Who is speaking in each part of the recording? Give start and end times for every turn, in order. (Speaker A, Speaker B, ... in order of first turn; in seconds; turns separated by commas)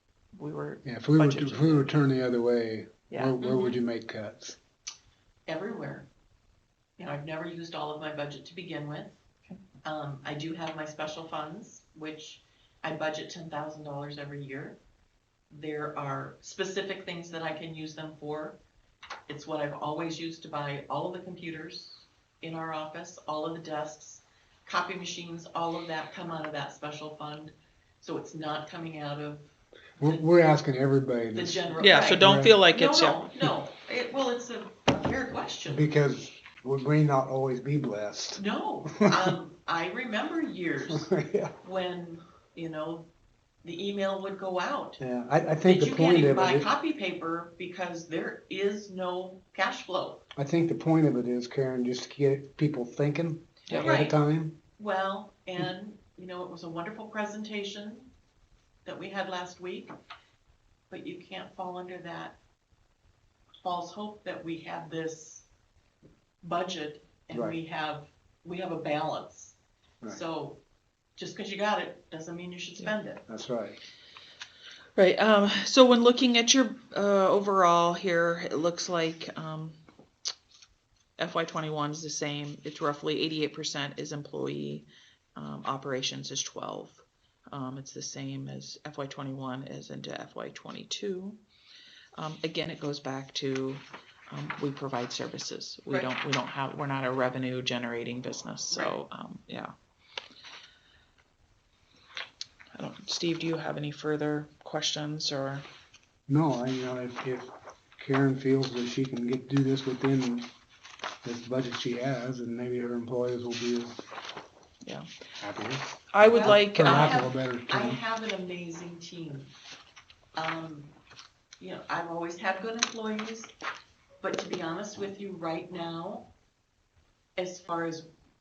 Speaker A: 0.4-1.9, Speaker B: 0.8-4.6, Speaker A: 3.1-3.4, Speaker C: 3.4-3.8, Speaker C: 5.5-6.1, Speaker C: 7.0-9.2, Speaker C: 9.8-14.8, Speaker C: 15.5-18.6, Speaker C: 19.3-30.3, Speaker B: 30.0-32.6, Speaker C: 31.3-35.9, Speaker A: 31.8-33.2, Speaker B: 35.7-39.4, Speaker C: 38.4-41.1, Speaker B: 40.9-41.5, Speaker C: 41.6-43.1, Speaker C: 43.6-45.0, Speaker B: 45.0-46.7, Speaker C: 45.6-50.2, Speaker B: 50.4-54.6, Speaker C: 53.7-54.2, Speaker C: 54.8-58.1, Speaker C: 58.9-59.9, Speaker C: 60.9-62.4, Speaker C: 63.6-65.5, Speaker C: 66.4-70.6, Speaker B: 67.3-67.6, Speaker C: 71.2-73.2, Speaker B: 73.3-73.8, Speaker A: 75.0-79.8, Speaker A: 81.2-91.4, Speaker A: 92.2-99.7, Speaker A: 102.8-105.7, Speaker B: 106.3-110.5, Speaker B: 111.2-114.0, Speaker B: 115.4-118.0, Speaker A: 116.1-117.2, Speaker C: 116.2-119.5, Speaker C: 120.4-120.9, Speaker C: 121.6-123.5, Speaker C: 124.2-126.3, Speaker C: 127.4-128.1